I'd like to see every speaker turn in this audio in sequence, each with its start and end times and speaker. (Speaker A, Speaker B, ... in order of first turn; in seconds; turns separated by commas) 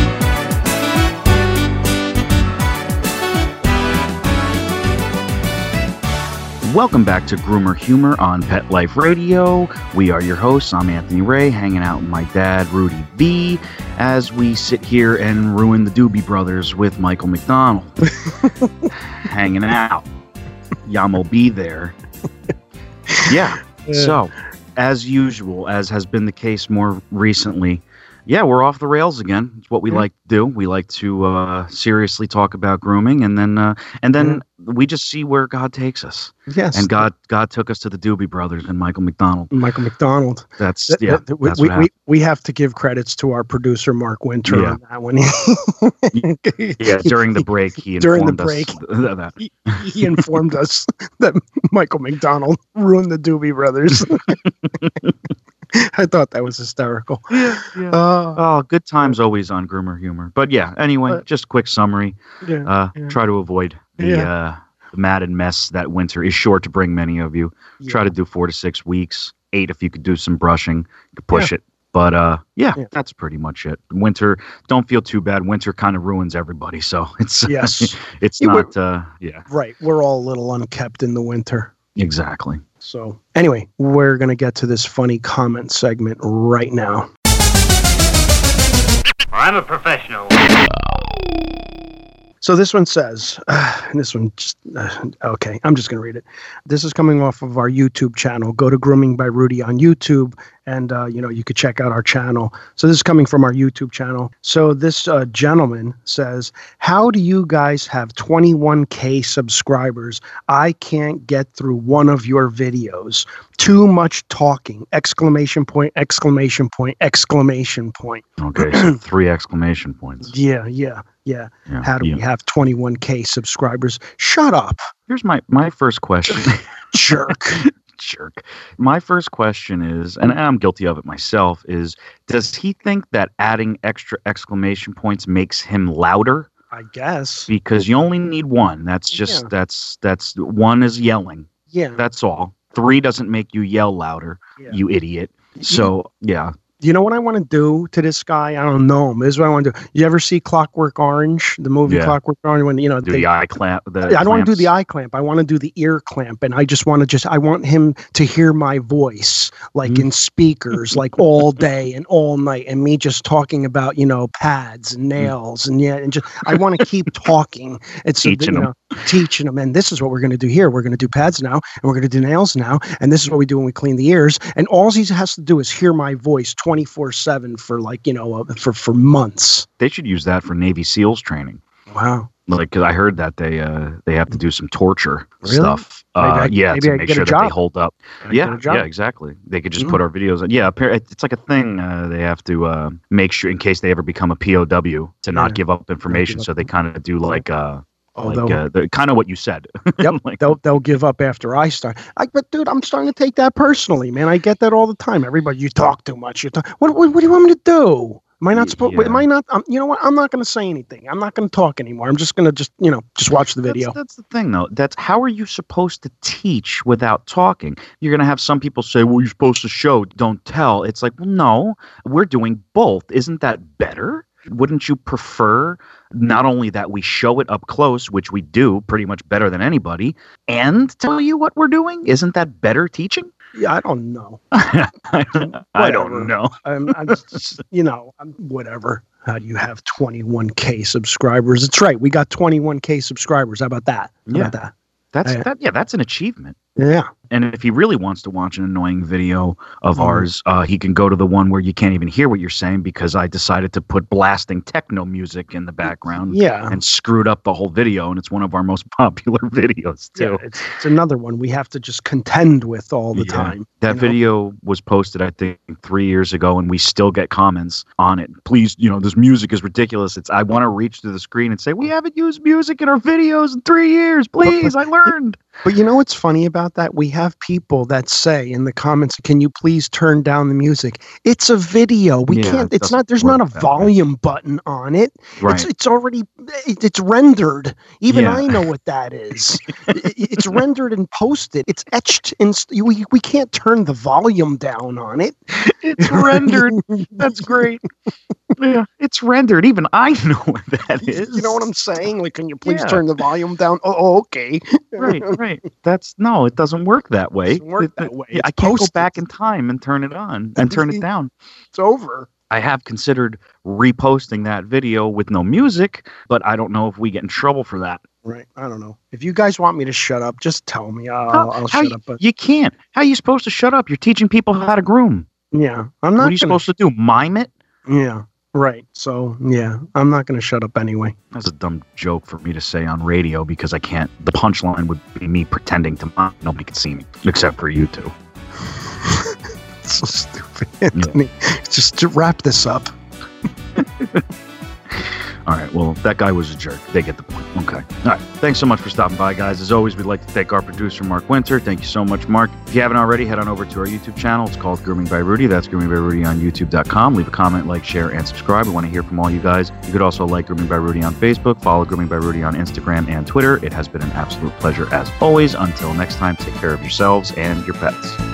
Speaker A: 6.6-17.9, Speaker B: 18.3-18.9, Speaker A: 19.2-20.1, Speaker A: 20.8-22.0, Speaker A: 23.3-39.5, Speaker B: 23.8-24.1, Speaker B: 34.2-34.4, Speaker B: 36.5-37.1, Speaker B: 39.5-47.4, Speaker A: 40.6-41.9, Speaker A: 44.5-44.8, Speaker A: 46.8-50.2, Speaker B: 48.0-48.8, Speaker B: 49.4-54.4, Speaker A: 54.8-55.1, Speaker B: 55.7-58.4, Speaker A: 57.3-79.5, Speaker B: 62.4-63.2, Speaker B: 64.0-64.3, Speaker B: 67.8-68.1, Speaker B: 77.5-78.7, Speaker B: 79.5-81.7, Speaker A: 82.0-82.6, Speaker B: 82.8-87.1, Speaker A: 89.5-90.2, Speaker B: 92.4-119.0, Speaker A: 118.4-120.3, Speaker B: 120.2-124.9, Speaker A: 121.7-122.2, Speaker A: 125.1-126.6, Speaker B: 126.9-127.6, Speaker A: 127.5-136.5, Speaker B: 136.7-137.5, Speaker A: 137.5-146.5, Speaker B: 139.2-139.5, Speaker B: 141.7-142.0, Speaker B: 145.6-145.9, Speaker B: 146.8-153.3, Speaker A: 151.9-152.2, Speaker A: 153.0-154.7, Speaker B: 154.0-179.7, Speaker A: 168.2-168.7, Speaker A: 179.8-181.6, Speaker B: 181.9-182.3, Speaker A: 182.5-200.4, Speaker B: 185.4-187.5, Speaker B: 188.2-188.8, Speaker B: 195.3-196.6, Speaker B: 198.2-198.6, Speaker B: 200.0-213.9, Speaker A: 208.5-209.2, Speaker A: 213.7-233.3, Speaker B: 233.6-234.4, Speaker A: 234.5-237.4, Speaker B: 235.4-244.7, Speaker A: 245.1-246.6, Speaker B: 246.8-247.1, Speaker A: 247.3-260.5, Speaker B: 249.9-250.3, Speaker B: 256.1-256.8, Speaker B: 260.2-264.2, Speaker A: 263.1-275.4, Speaker B: 274.4-275.1, Speaker B: 275.6-295.5, Speaker A: 282.3-283.9, Speaker A: 285.4-285.7, Speaker A: 288.1-288.6, Speaker A: 295.5-297.8, Speaker B: 296.0-297.8, Speaker A: 298.6-301.6, Speaker B: 301.1-305.4, Speaker A: 302.6-303.0, Speaker A: 305.0-311.3, Speaker B: 307.5-309.2, Speaker B: 310.6-311.0, Speaker B: 311.7-312.3, Speaker A: 312.5-318.0, Speaker B: 318.2-322.2, Speaker A: 321.3-325.3, Speaker B: 325.5-326.6, Speaker A: 326.2-327.5, Speaker B: 327.9-331.2, Speaker A: 331.3-338.1, Speaker B: 339.0-342.9, Speaker A: 343.8-344.2, Speaker A: 344.9-368.2